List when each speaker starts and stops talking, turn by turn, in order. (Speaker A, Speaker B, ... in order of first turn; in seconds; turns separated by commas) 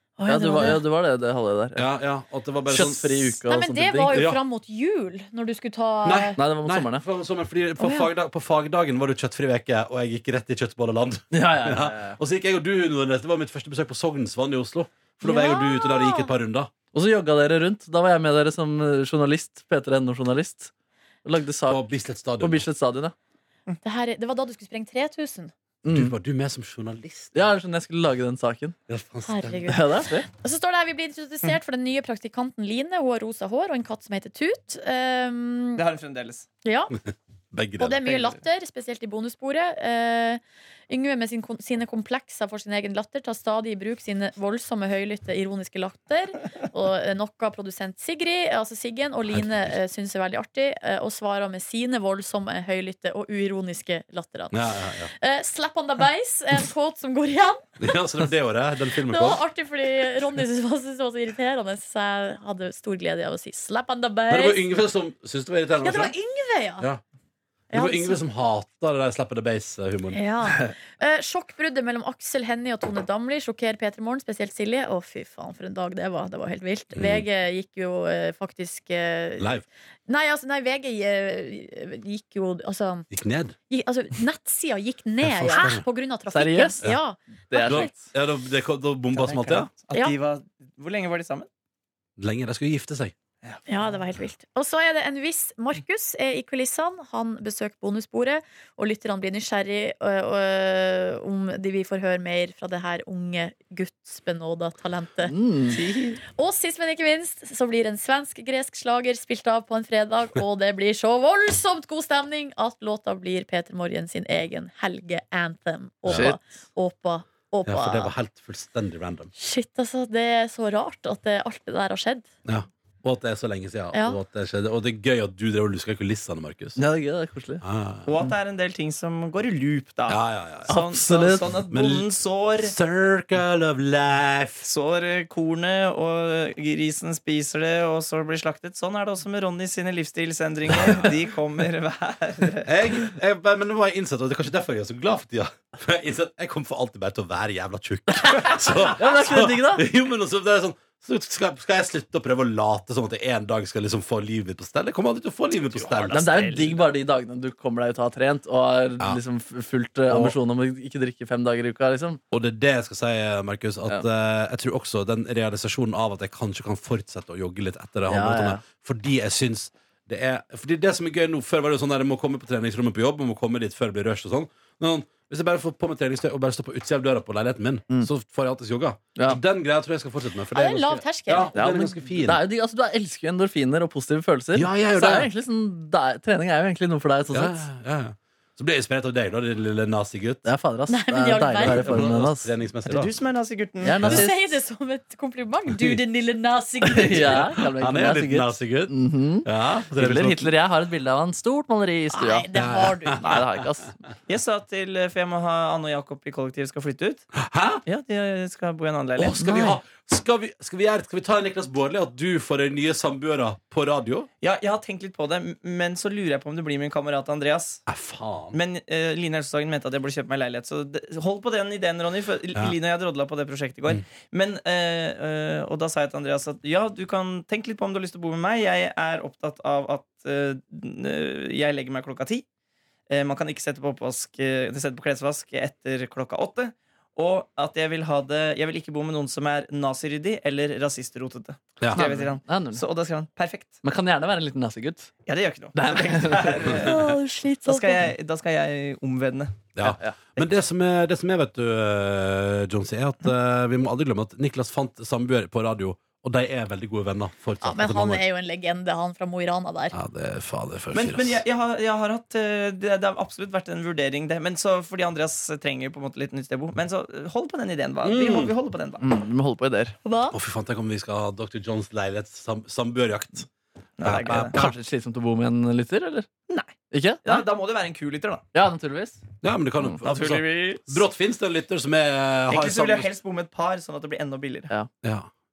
Speaker A: 0.2-0.8, Speaker B: 0.2-1.9, Speaker C: 1.8-3.4, Speaker B: 2.6-4.3, Speaker A: 3.5-6.4, Speaker C: 4.1-4.4, Speaker C: 6.0-16.7, Speaker B: 6.4-7.0, Speaker A: 7.8-8.1, Speaker B: 11.3-12.2, Speaker A: 15.2-16.3, Speaker B: 16.9-20.7, Speaker B: 21.2-21.9, Speaker C: 21.7-22.6, Speaker B: 22.4-23.1, Speaker A: 23.8-25.5, Speaker B: 25.8-26.1, Speaker C: 25.9-27.5, Speaker B: 27.3-28.8, Speaker C: 28.9-29.7, Speaker A: 29.2-35.8, Speaker B: 29.6-30.3, Speaker D: 35.8-36.5, Speaker A: 36.6-37.0, Speaker C: 37.5-38.2, Speaker A: 37.8-58.0, Speaker C: 49.3-49.8, Speaker C: 54.5-55.1, Speaker C: 57.8-59.4, Speaker A: 59.0-64.6, Speaker C: 64.3-66.1, Speaker A: 65.8-66.9, Speaker A: 67.7-68.2, Speaker C: 67.7-70.2, Speaker A: 70.1-79.5, Speaker C: 76.9-77.2, Speaker C: 79.4-79.6, Speaker A: 80.1-83.1, Speaker C: 83.1-83.5, Speaker A: 83.7-87.9, Speaker C: 85.2-85.8, Speaker B: 86.3-86.9, Speaker B: 87.5-88.0, Speaker C: 87.6-89.7, Speaker D: 89.1-91.5, Speaker C: 92.2-93.1, Speaker A: 93.7-105.3, Speaker B: 105.2-105.8, Speaker D: 105.7-106.2, Speaker A: 106.3-118.1, Speaker B: 116.1-116.4, Speaker C: 117.7-119.3, Speaker A: 119.3-122.3, Speaker C: 122.4-126.8, Speaker A: 123.9-124.2, Speaker B: 126.8-127.6, Speaker C: 127.6-128.1, Speaker D: 128.1-132.7, Speaker C: 130.1-130.7, Speaker B: 130.7-131.6, Speaker C: 131.7-132.1, Speaker C: 132.6-134.6, Speaker D: 134.6-142.7, Speaker C: 142.7-156.3, Speaker B: 148.9-149.8, Speaker D: 155.6-156.8, Speaker B: 156.1-162.2, Speaker C: 160.1-160.3, Speaker C: 162.3-182.4, Speaker B: 168.1-168.6, Speaker A: 180.5-181.6, Speaker B: 181.5-187.7, Speaker C: 184.5-185.3, Speaker C: 187.3-190.4, Speaker B: 190.4-192.9, Speaker A: 190.9-192.0, Speaker C: 191.6-193.1, Speaker D: 192.8-194.0, Speaker B: 193.8-194.4, Speaker C: 194.0-194.3, Speaker A: 194.0-197.4, Speaker C: 195.7-196.0, Speaker B: 196.8-202.5, Speaker C: 197.1-200.5, Speaker A: 202.1-203.4, Speaker C: 202.5-203.4, Speaker B: 203.2-203.9, Speaker D: 204.3-207.2, Speaker C: 207.3-207.8, Speaker D: 207.8-209.4, Speaker C: 209.2-214.3, Speaker B: 209.4-209.8, Speaker D: 214.4-217.8, Speaker C: 217.9-218.6, Speaker D: 218.5-232.4, Speaker D: 233.1-243.7, Speaker C: 241.8-242.1, Speaker B: 241.9-242.8, Speaker B: 243.8-245.1, Speaker D: 245.2-247.1, Speaker B: 245.7-246.7, Speaker A: 246.8-248.1, Speaker D: 247.7-249.7, Speaker C: 249.8-258.2, Speaker B: 249.8-250.2, Speaker A: 257.6-259.9, Speaker C: 259.9-261.4, Speaker D: 260.9-269.1, Speaker C: 268.0-268.5, Speaker B: 269.0-270.0, Speaker A: 270.0-270.4, Speaker C: 270.3-273.5, Speaker D: 274.0-274.6, Speaker C: 274.0-274.7, Speaker B: 274.2-276.3, Speaker D: 276.5-278.4, Speaker B: 276.9-277.4, Speaker B: 278.5-279.2, Speaker C: 279.4-283.1, Speaker B: 279.8-281.0, Speaker D: 280.1-280.5, Speaker D: 282.5-284.7, Speaker C: 285.0-285.3